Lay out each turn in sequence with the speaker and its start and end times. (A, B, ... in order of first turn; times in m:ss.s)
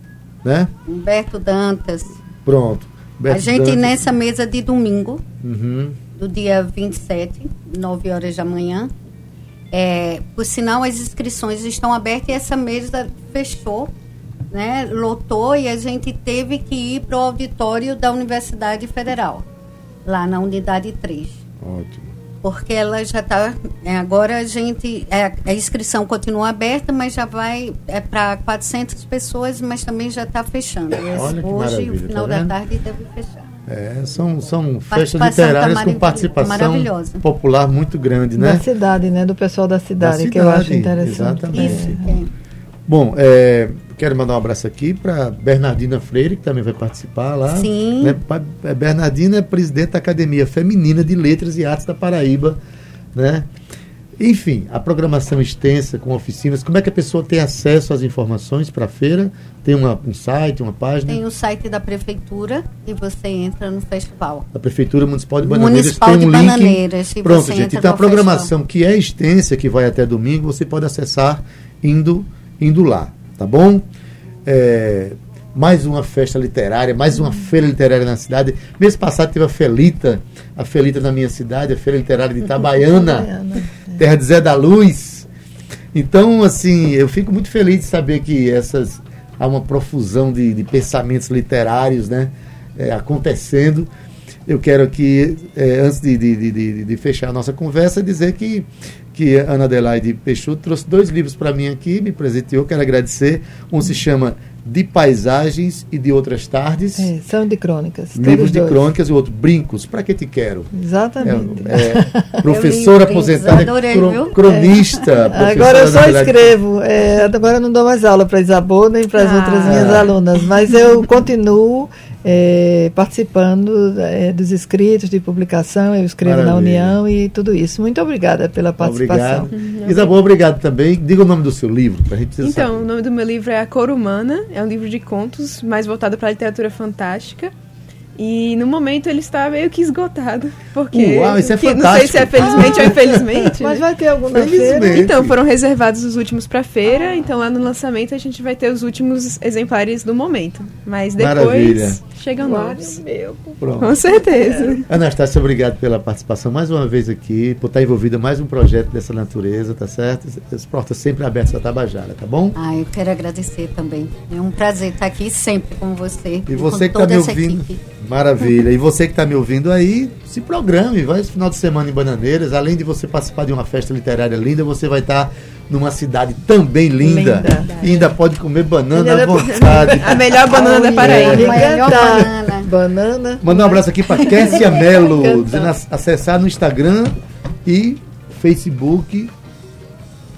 0:00.4-0:00.7 A
0:00.9-0:02.2 B
0:02.4-0:03.9 A
0:03.3-0:05.2 B
0:05.4-0:06.0 A
0:06.1-0:08.9 B
0:09.7-0:13.9 B
0:14.5-0:19.4 B
0:20.1-0:21.4 B
0:21.6-0:22.1 A
0:22.4-0:33.5 B
0:31.1-0:32.5 A
0:33.7-0:38.7 A
0:34.9-0:37.2 B
0:38.4-0:42.1 C
0:40.0-0:42.0 A
0:41.5-0:42.3 B
0:42.9-0:52.6 A
0:47.5-0:48.2 B
0:53.2-0:53.5 A
0:54.2-1:01.2 A
1:01.1-1:04.5 B
1:04.5-1:13.8 A
1:05.4-1:08.5 B
1:14.4-1:23.3 A
1:23.0-1:24.0 C
1:24.0-1:25.3 A
1:25.9-1:33.9 A
1:34.5-1:47.1 A
1:47.0-1:48.8 C
1:48.2-1:56.6 A
1:50.7-1:52.4 C
1:52.5-1:55.0 B
1:54.5-1:54.8 C
1:55.3-2:09.5 C
1:59.2-2:00.1 B
1:59.6-2:00.1 A
2:06.2-2:07.0 A
2:08.8-2:12.9 A
2:09.5-2:10.2 D
2:12.4-2:17.5 D
2:18.2-2:23.8 D
2:20.9-2:23.4 A
2:23.6-2:25.1 C
2:24.3-2:25.4 A
2:24.8-2:33.0 D
2:31.2-2:32.0 A
2:32.4-2:34.8 C
2:33.6-2:34.0 A
2:33.8-2:34.9 D
2:34.9-2:42.6 A
2:42.6-2:47.8 B
2:46.5-3:02.3 A
2:57.0-2:57.7 C
2:57.6-2:58.1 B
2:58.9-3:05.7 C
2:59.4-3:01.6 D
3:01.0-3:02.7 B
3:03.4-3:09.3 A